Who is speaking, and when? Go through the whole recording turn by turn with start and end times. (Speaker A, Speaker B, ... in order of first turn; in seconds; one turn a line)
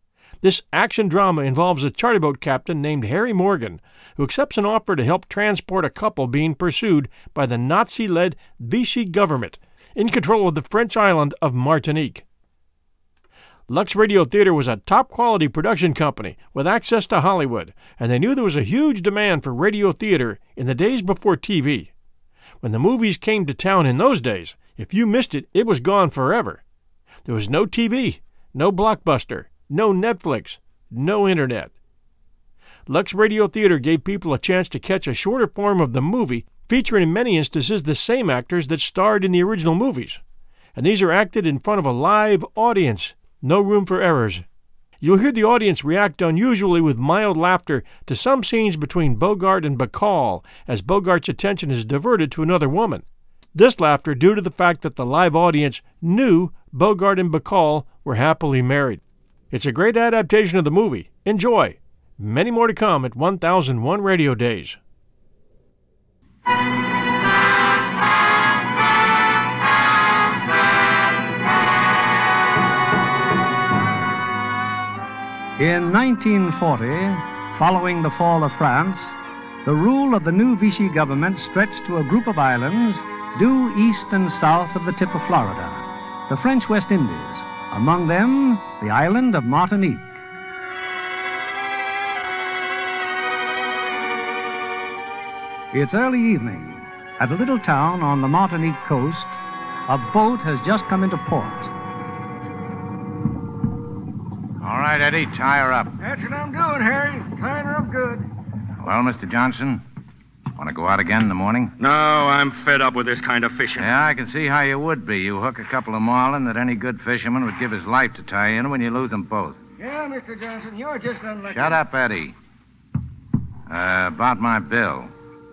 Speaker A: 0.4-12.2
Speaker A: 13.7-21.9
Speaker A: 22.6-26.6
Speaker A: 27.2-31.7
Speaker A: 32.9-40.2
Speaker A: 40.8-44.4
Speaker A: 45.0-53.0
Speaker A: 53.5-59.0
Speaker A: 59.5-64.8
Speaker B: 75.6-90.1
Speaker B: 95.7-101.7
Speaker C: 104.6-105.9
Speaker D: 106.0-108.3
Speaker C: 108.8-109.8
Speaker C: 110.6-111.7
Speaker E: 111.8-113.9
Speaker C: 113.8-119.6
Speaker D: 119.8-121.8
Speaker C: 121.5-122.3
Speaker C: 123.7-125.1